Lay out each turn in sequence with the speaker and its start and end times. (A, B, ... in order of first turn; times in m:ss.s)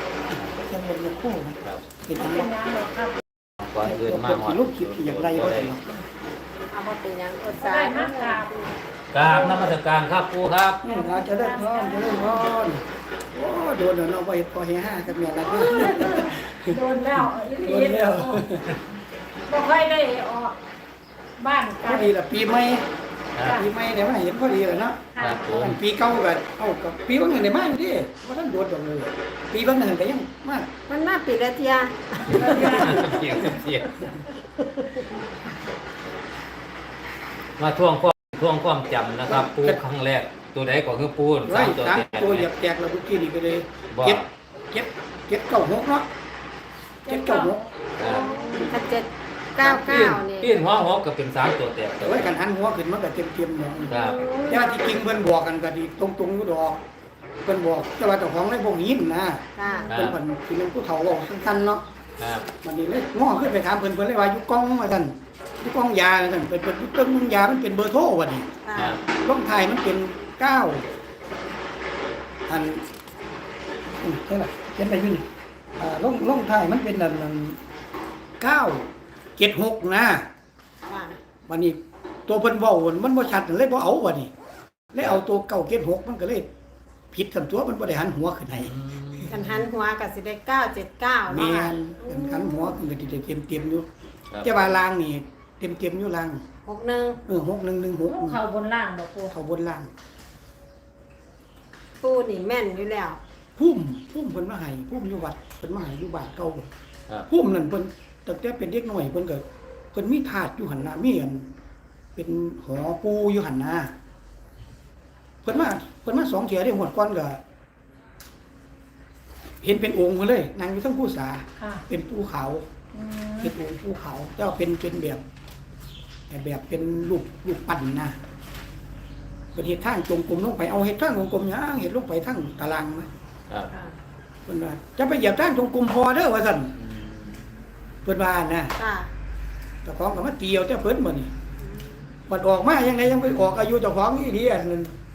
0:00.3-0:02.5 A
0:02.2-0:03.2 B
0:03.6-0:05.7 C
0:03.8-0:05.9 A
0:06.7-0:08.7 D
0:07.6-0:08.5 B
0:09.1-0:10.8 C
0:10.8-0:18.8 A
0:10.8-0:12.5 B
0:15.5-0:18.5 B
0:15.9-0:16.2 D
0:19.5-0:20.6 B
0:21.4-0:22.1 B
0:21.8-0:22.9 A
0:23.4-0:23.6 C
0:23.4-0:30.7 A
0:25.2-0:25.8 B
0:25.2-0:25.8 C
0:30.9-0:33.6 D
0:32.3-0:33.1 B
0:32.4-0:33.0 A
0:32.4-0:34.0 C
0:37.6-0:42.5 C
0:39.3-0:39.8 A
0:41.5-0:46.1 A
0:43.9-0:44.2 C
0:47.0-0:48.9 B
0:47.1-0:47.7 A
0:48.0-0:48.3 C
0:48.0-0:50.8 D
0:49.6-0:52.3 C
0:52.0-0:54.0 A
0:53.9-0:54.2 C
0:53.9-0:54.8 D
0:54.5-0:56.8 A
0:57.4-1:01.8 A
0:59.6-0:59.9 D
0:59.9-1:00.2 C
1:02.2-1:02.5 C
1:02.6-1:08.6 A
1:08.6-1:09.0 D
1:08.8-1:09.0 C
1:09.1-1:10.9 A
1:12.5-1:12.8 A
1:14.0-1:15.3 A
1:15.8-1:17.6 A
1:18.4-1:20.3 A
1:20.9-1:21.2 D
1:21.5-1:24.3 A
1:24.9-1:26.5 A
1:27.1-1:28.8 A
1:28.7-1:29.6 C
1:29.3-1:32.8 D
1:31.3-1:33.9 A
1:34.3-1:34.7 C
1:34.4-1:36.4 A
1:36.6-1:37.2 D
1:37.3-1:38.4 A
1:38.1-1:39.4 B
1:39.3-1:39.9 A
1:42.0-1:43.2 D
1:43.6-1:46.7 A
1:47.3-1:51.5 A
1:52.2-1:54.0 A
1:55.4-1:57.4 A
1:59.6-2:02.7 A
2:01.6-2:01.8 B
2:02.9-2:03.6 B
2:03.4-2:05.2 A
2:06.3-2:08.2 A
2:09.5-2:13.1 A
2:13.7-2:14.0 D
2:14.5-2:16.7 A
2:16.8-2:17.4 C
2:18.0-2:18.7 A
2:18.8-2:19.1 D
2:19.8-2:21.3 A
2:21.6-2:22.1 D
2:22.3-2:24.9 A